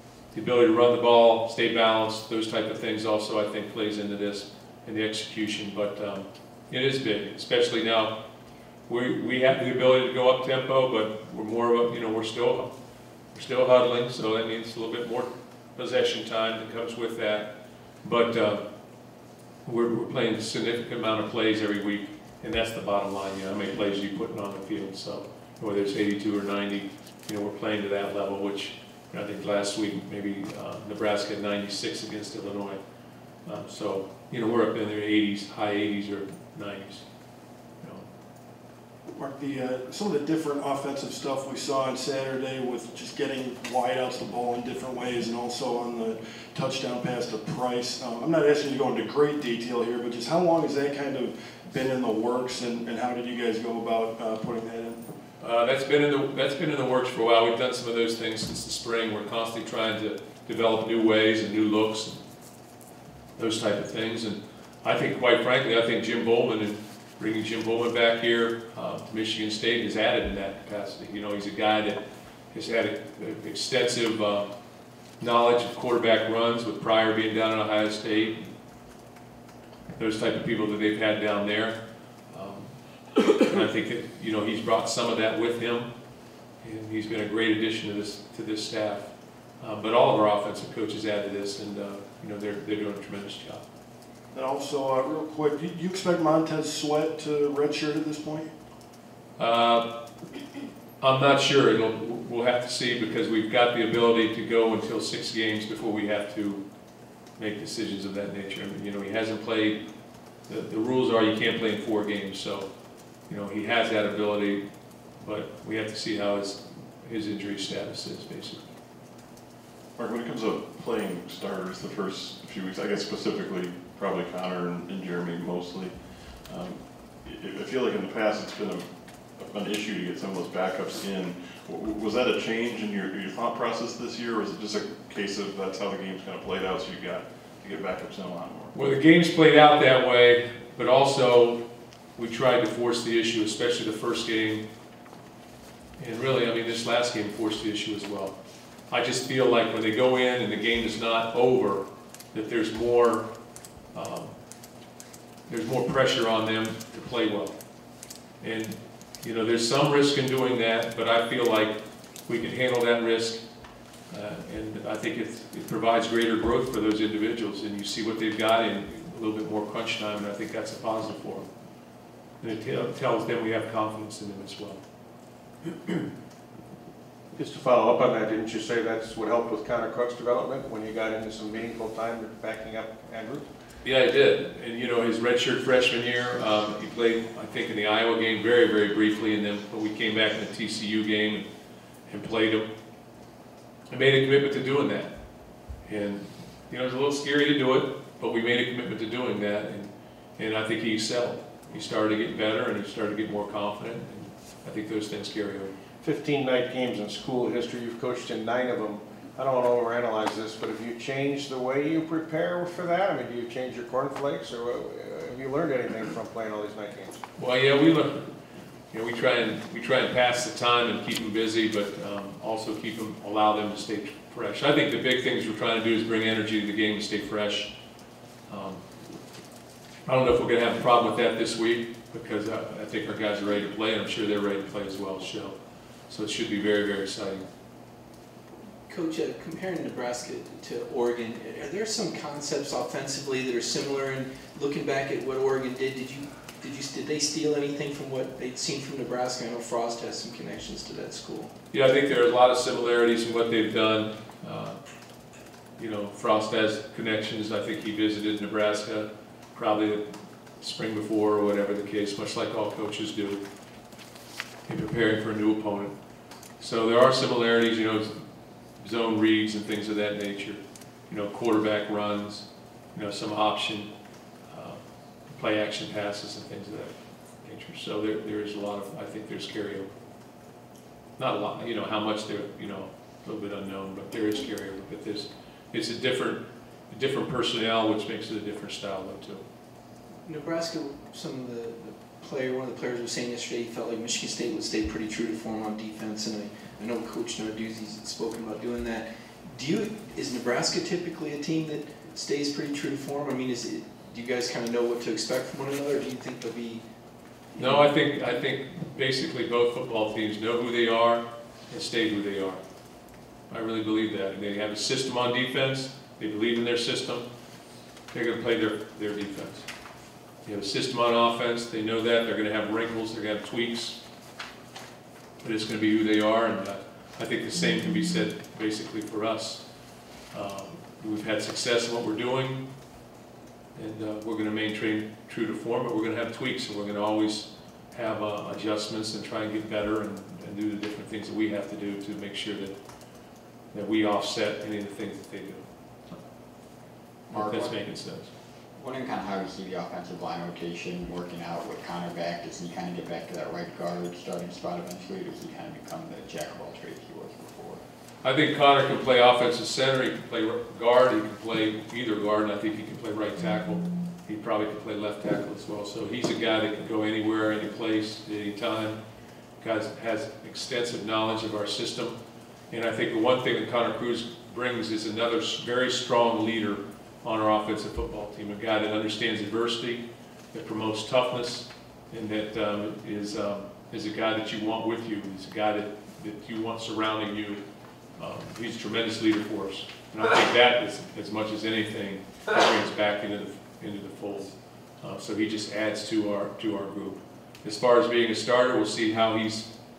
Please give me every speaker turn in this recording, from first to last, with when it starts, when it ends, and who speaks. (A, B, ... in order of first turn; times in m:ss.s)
0:00.3-0:08.2 A
0:08.9-0:12.7 A
0:13.3-0:18.6 A
0:19.6-0:32.8 A
0:33.4-0:37.0 A
0:39.1-0:55.0 B
0:55.4-1:02.2 A
1:03.4-1:12.0 A
1:12.5-1:14.5 A
1:15.2-1:18.5 A
1:20.0-1:25.9 A
1:26.6-1:33.6 A
1:34.3-1:38.5 B
1:39.4-1:39.9 A
1:41.0-1:46.6 A
1:47.4-1:49.8 A
1:50.5-1:52.7 A
1:53.3-1:54.6 A
1:55.2-1:58.7 A
2:00.0-2:18.7 C
2:18.7-2:21.6 A
2:22.2-2:24.6 A
2:26.0-2:28.3 A
2:28.9-2:33.3 A
2:33.9-2:34.4 A
2:35.5-2:37.5 A
2:38.4-2:43.4 A
2:44.1-2:51.5 A
2:52.4-2:54.8 A
2:57.4-3:03.5 D
3:03.8-3:11.4 A
3:12.1-3:12.7 A
3:13.9-3:15.1 A
3:15.8-3:25.7 A
3:26.0-3:37.2 D
3:37.4-3:38.3 A
3:38.9-3:47.7 A
3:48.5-3:48.8 A
3:50.0-3:55.6 A
3:56.1-3:57.4 A
3:58.9-4:11.5 E
4:11.7-4:14.8 A
4:15.8-4:20.0 A
4:20.6-4:23.4 A
4:24.7-4:25.9 A
4:26.6-4:28.2 A
4:28.8-4:33.9 A
4:34.5-4:39.9 A
4:41.2-4:49.4 A
4:50.2-5:06.8 E
5:07.5-5:07.8 E
5:07.6-5:12.6 A
5:13.5-5:17.2 A
5:18.1-5:19.6 A
5:20.4-5:24.0 A
5:25.4-5:29.6 A
5:30.3-5:32.6 A
5:33.8-5:42.8 A
5:43.7-5:45.6 A
5:47.3-5:47.8 F
5:47.3-5:48.3 A
5:48.8-5:57.8 F
5:58.2-6:09.0 A
6:09.6-6:12.2 A
6:12.7-6:27.6 A
6:28.2-6:39.7 A